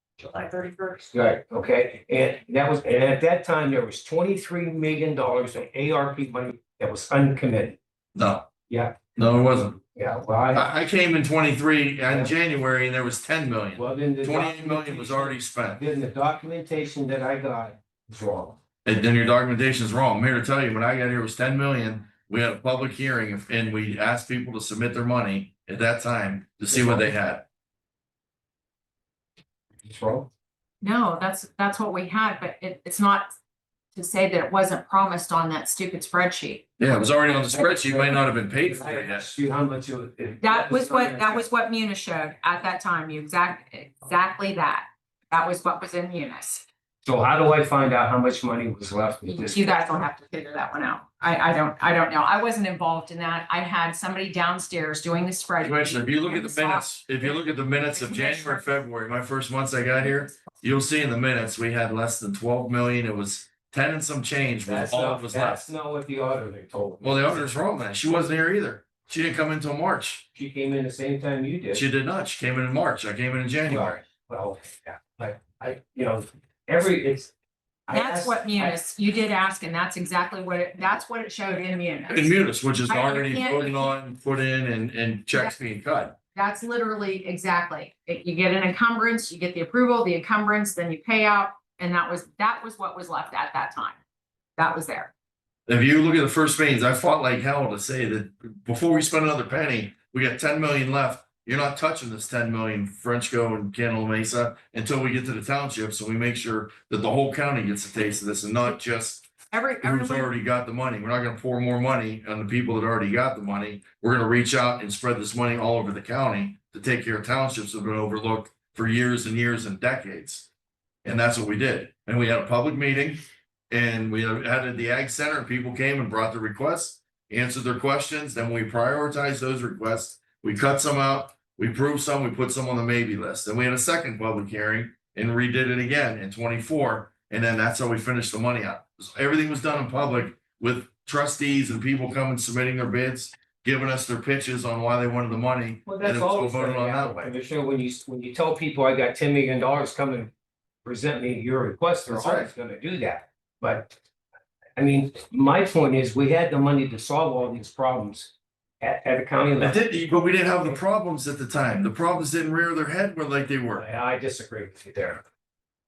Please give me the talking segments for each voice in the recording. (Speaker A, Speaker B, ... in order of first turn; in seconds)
Speaker A: 0.2-1.1, 30.8-33.3, 33.9-36.6, 40.4-46.6, 49.2-58.7, 77.9-82.3, 82.9-83.9, 86.3-94.0, 94.5-95.1, 109.5-110.3
Speaker B: 1.1-7.8, 8.7-9.1, 9.8-10.7, 12.1-12.3, 13.7-18.6, 26.7-27.1, 29.8-30.3, 37.3-41.4, 47.0-49.7, 64.6-67.5, 70.3-71.8, 73.7-77.3, 77.9-78.8, 145.8-150.3, 150.8-154.0, 154.8-159.8, 163.7-165.2
Speaker C: 8.1-8.5, 9.1-9.8, 10.5-15.8, 18.8-27.4, 36.8-39.3, 55.6-65.6, 67.0-70.2, 71.7-74.0, 82.1-86.2, 95.7-109.3, 109.8-120.5, 121.0-147.3, 152.1-152.5, 159.6-163.8